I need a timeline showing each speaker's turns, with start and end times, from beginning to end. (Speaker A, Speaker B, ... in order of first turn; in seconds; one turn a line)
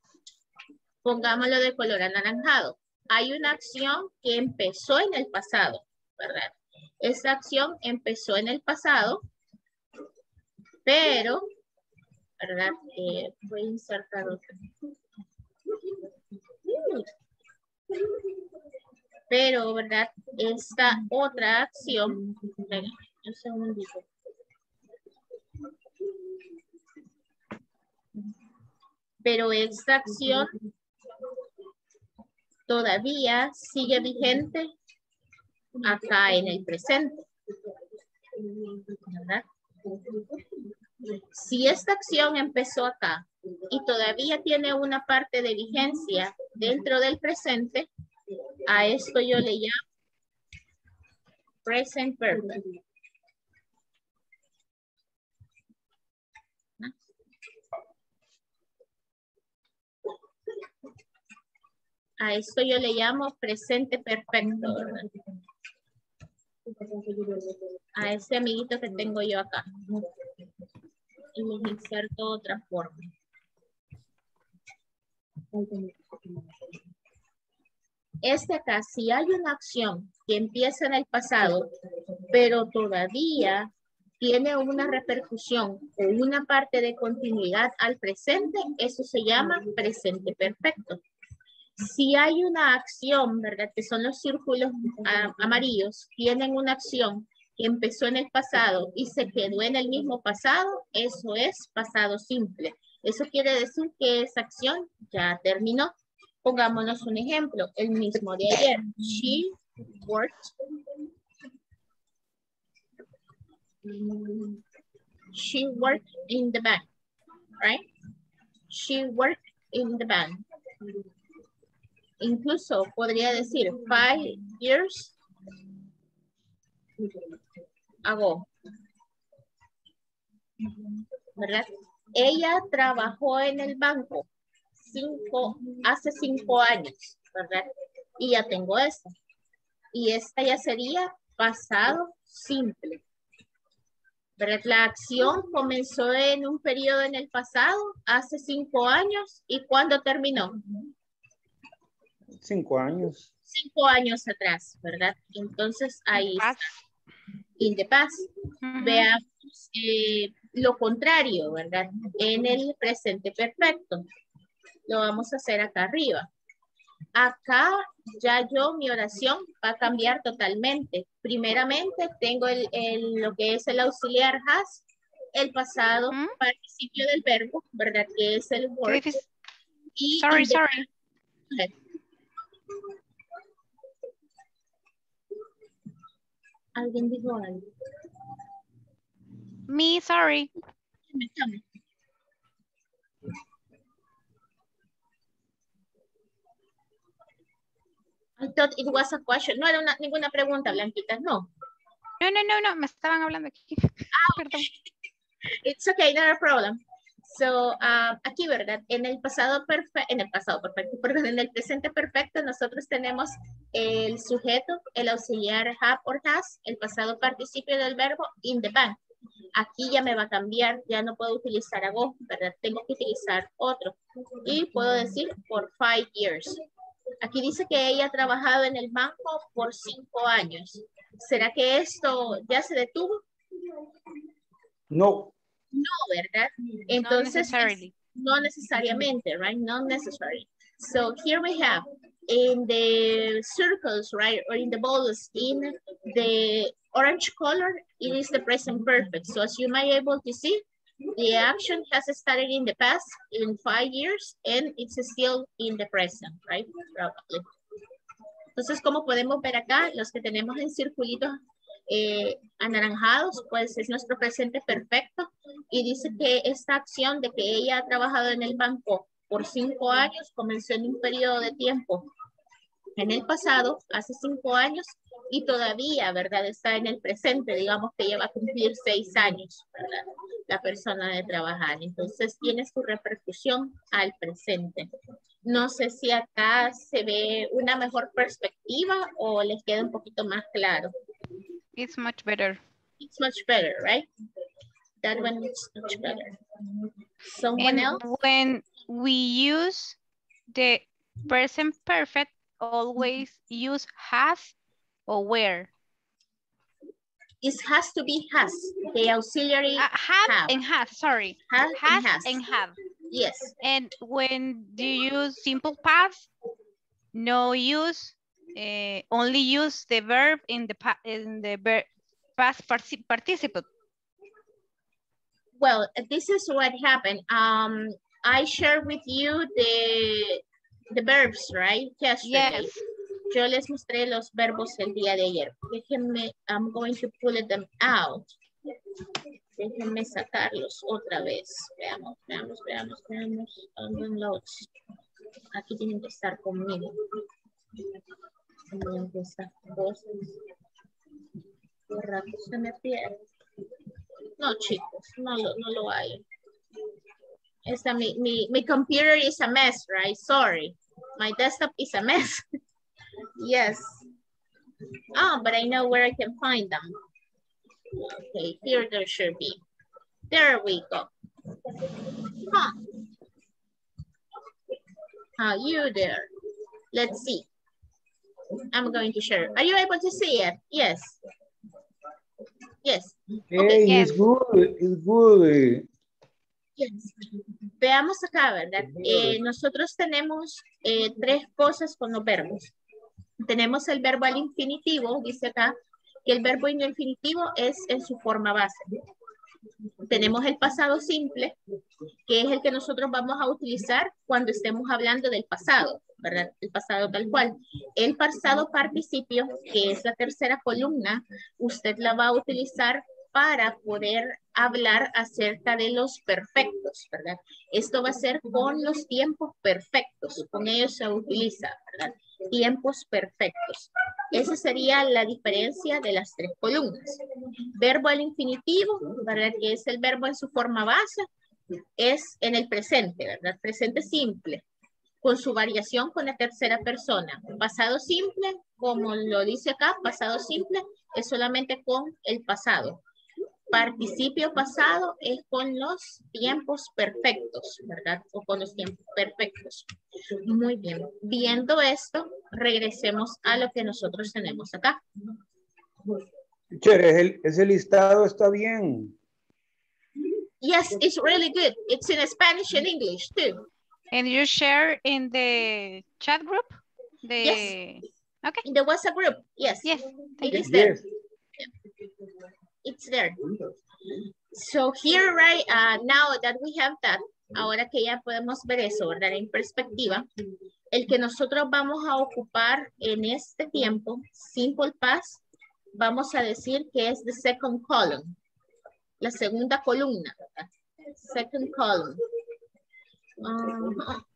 Speaker A: 1.0-9.2
Speaker A: 10.8-11.5
Speaker A: 12.4-14.5
Speaker A: 16.7-17.1
Speaker A: 19.3-24.1
Speaker A: 29.2-30.6
Speaker A: 32.7-34.7
Speaker A: 35.8-37.3
Speaker A: 38.8-39.5
Speaker A: 41.3-47.9
Speaker A: 48.7-49.8
Speaker A: 51.6-52.6
Speaker A: 62.2-65.1
Speaker A: 68.0-69.8
Speaker A: 71.3-73.1
Speaker A: 78.2-81.7
Speaker A: 82.3-91.0
Speaker A: 91.8-110.5
Speaker A: 115.3-116.9
Speaker A: 118.7-120.4
Speaker A: 122.2-125.2
Speaker A: 128.1-128.5
Speaker A: 131.4-134.3
Speaker A: 134.8-139.1
Speaker A: 139.9-143.0
Speaker A: 144.4-150.6
Speaker B: 152.4-153.3
Speaker A: 153.5-156.6
Speaker C: 156.2-156.8
Speaker A: 157.6-164.0
Speaker C: 158.7-159.1
Speaker A: 164.9-166.3
Speaker A: 167.2-179.1
Speaker C: 178.9-179.3
Speaker A: 180.0-180.9
Speaker C: 180.2-180.9
Speaker A: 186.8-187.6
Speaker C: 189.7-190.5
Speaker A: 191.1-191.6
Speaker A: 198.4-201.5
Speaker C: 202.2-204.7
Speaker A: 204.1-204.8
Speaker A: 205.6-219.0
Speaker A: 219.5-226.6
Speaker A: 227.2-233.2
Speaker B: 234.9-235.3
Speaker A: 235.7-250.6
Speaker C: 237.0-237.9
Speaker A: 251.2-257.4
Speaker A: 258.6-261.4
Speaker A: 261.9-272.1
Speaker A: 273.0-284.9
Speaker A: 285.4-290.9
Speaker C: 291.8-292.6
Speaker A: 293.0-294.1
Speaker A: 295.0-296.4
Speaker A: 297.2-298.0
Speaker C: 297.6-300.0
Speaker C: 300.5-304.6
Speaker C: 305.1-305.7
Speaker A: 307.4-310.5
Speaker C: 309.8-312.8
Speaker A: 311.5-312.4
Speaker A: 313.1-313.5
Speaker C: 313.6-316.3
Speaker C: 317.1-323.7
Speaker A: 325.6-332.8
Speaker C: 332.2-332.8
Speaker A: 333.3-338.3
Speaker A: 339.6-344.7
Speaker A: 345.5-347.0
Speaker A: 348.7-350.4
Speaker A: 351.9-353.2
Speaker A: 354.4-356.2
Speaker A: 357.7-362.4
Speaker A: 363.4-364.0
Speaker A: 365.1-366.9
Speaker A: 368.0-369.6
Speaker A: 370.3-371.1
Speaker A: 372.3-372.8
Speaker A: 375.4-376.3
Speaker A: 376.9-377.5
Speaker A: 378.7-381.2
Speaker A: 382.8-384.1
Speaker B: 383.5-385.9
Speaker C: 383.9-384.2
Speaker A: 386.8-387.1
Speaker A: 387.8-392.7
Speaker A: 393.4-398.9
Speaker A: 400.0-401.6
Speaker A: 402.3-427.2
Speaker A: 427.7-431.3
Speaker A: 432.0-434.6
Speaker A: 435.2-443.0
Speaker A: 443.7-449.9
Speaker A: 450.4-455.0
Speaker B: 456.7-459.1
Speaker A: 460.6-463.6
Speaker C: 464.1-468.6
Speaker A: 467.4-467.7
Speaker A: 468.6-471.0
Speaker C: 469.9-470.7
Speaker B: 470.6-471.0
Speaker A: 472.8-473.4
Speaker A: 474.5-480.3
Speaker A: 480.9-485.4
Speaker A: 485.9-488.4
Speaker A: 489.2-492.2
Speaker A: 493.4-494.2